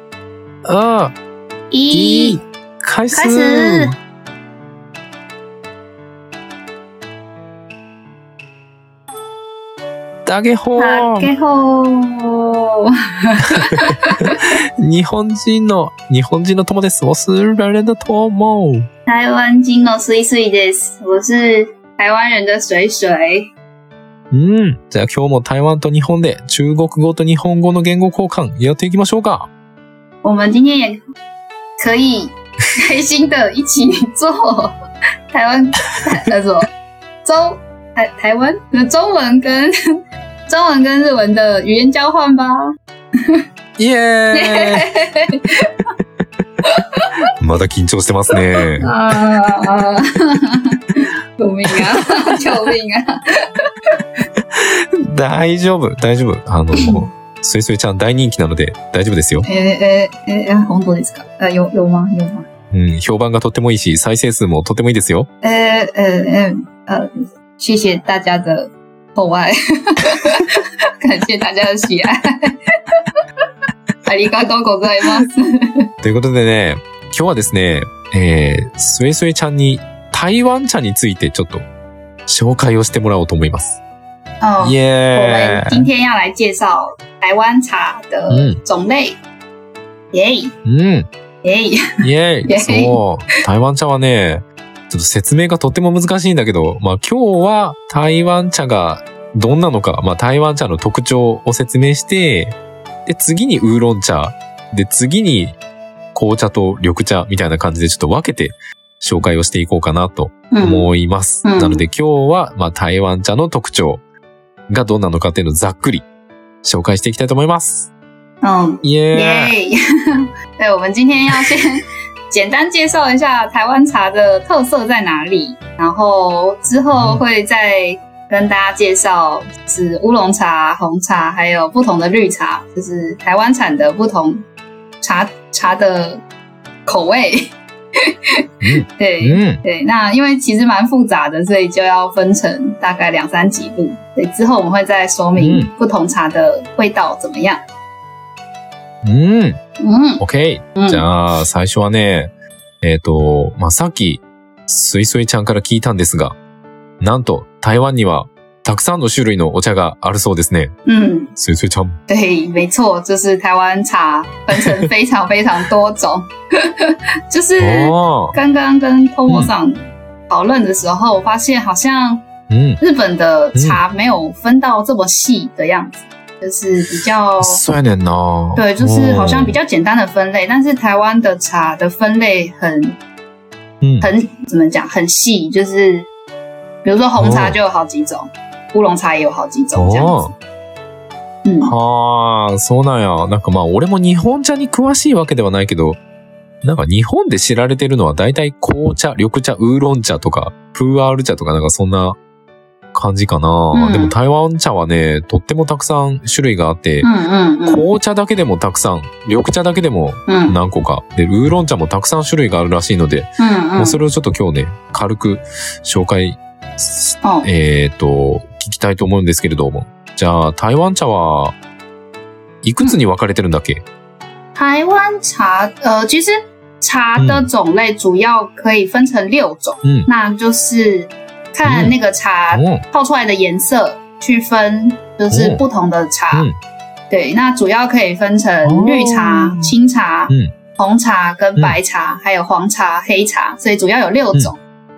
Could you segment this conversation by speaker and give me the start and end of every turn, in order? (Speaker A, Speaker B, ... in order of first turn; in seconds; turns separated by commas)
Speaker A: 0.6-1.1, Speaker B: 1.7-2.4, Speaker A: 1.9-3.9, Speaker B: 3.1-3.9, Speaker A: 10.2-11.3, Speaker B: 10.8-14.4, Speaker A: 13.5-18.9, Speaker B: 19.1-23.5, Speaker A: 24.3-29.5, Speaker B: 30.2-31.0, Speaker B: 31.8-34.7, Speaker B: 35.3-36.7, Speaker A: 35.9-36.3, Speaker B: 37.2-39.7, Speaker B: 40.5-43.4, Speaker A: 43.8-44.9, Speaker B: 44.3-45.7, Speaker B: 46.6-47.1, Speaker A: 47.3-48.9, Speaker B: 48.6-53.6, Speaker A: 51.7-52.4, Speaker A: 54.5-59.5, Speaker B: 59.4-62.5, Speaker A: 62.7-65.3, Speaker B: 65.4-73.2, Speaker B: 74.0-75.8, Speaker A: 76.0-81.7, Speaker A: 82.3-83.8, Speaker B: 84.4-89.2, Speaker A: 84.6-85.9, Speaker A: 88.3-88.6, Speaker B: 90.1-90.5, Speaker A: 90.6-91.1, Speaker B: 91.4-93.0, Speaker A: 92.0-105.6, Speaker A: 106.1-114.0, Speaker B: 110.5-110.9, Speaker B: 111.4-111.8, Speaker A: 114.7-116.0, Speaker A: 116.6-117.9, Speaker B: 118.4-134.4, Speaker A: 118.8-119.5, Speaker A: 126.9-127.2, Speaker B: 135.0-136.2, Speaker B: 136.8-138.0, Speaker A: 138.6-139.6, Speaker B: 138.9-147.6, Speaker A: 145.3-145.7, Speaker A: 149.0-149.6, Speaker B: 149.8-150.2, Speaker A: 150.2-156.3, Speaker B: 150.8-151.1, Speaker A: 157.0-160.7, Speaker B: 160.8-161.3, Speaker A: 161.3-162.0, Speaker B: 162.1-172.2, Speaker A: 164.6-164.8, Speaker A: 167.6-168.4, Speaker A: 172.5-172.8, Speaker B: 172.8-177.6, Speaker A: 173.5-173.8, Speaker A: 176.9-179.6, Speaker B: 178.6-183.0, Speaker A: 183.8-184.1, Speaker B: 184.0-186.1, Speaker B: 186.8-190.3, Speaker A: 187.2-187.6, Speaker A: 189.7-190.3, Speaker B: 191.4-191.7, Speaker A: 191.6-196.0, Speaker A: 196.6-202.2, Speaker A: 202.9-207.1, Speaker B: 203.7-204.1, Speaker B: 207.0-207.8, Speaker A: 207.7-221.5, Speaker B: 210.3-210.6, Speaker B: 213.4-214.0, Speaker B: 217.2-217.5, Speaker A: 222.6-223.8, Speaker B: 224.5-236.5, Speaker A: 227.2-227.5, Speaker A: 229.8-230.1, Speaker A: 231.6-231.9, Speaker A: 232.5-232.8, Speaker A: 235.3-235.6, Speaker B: 237.1-244.6, Speaker A: 238.6-239.7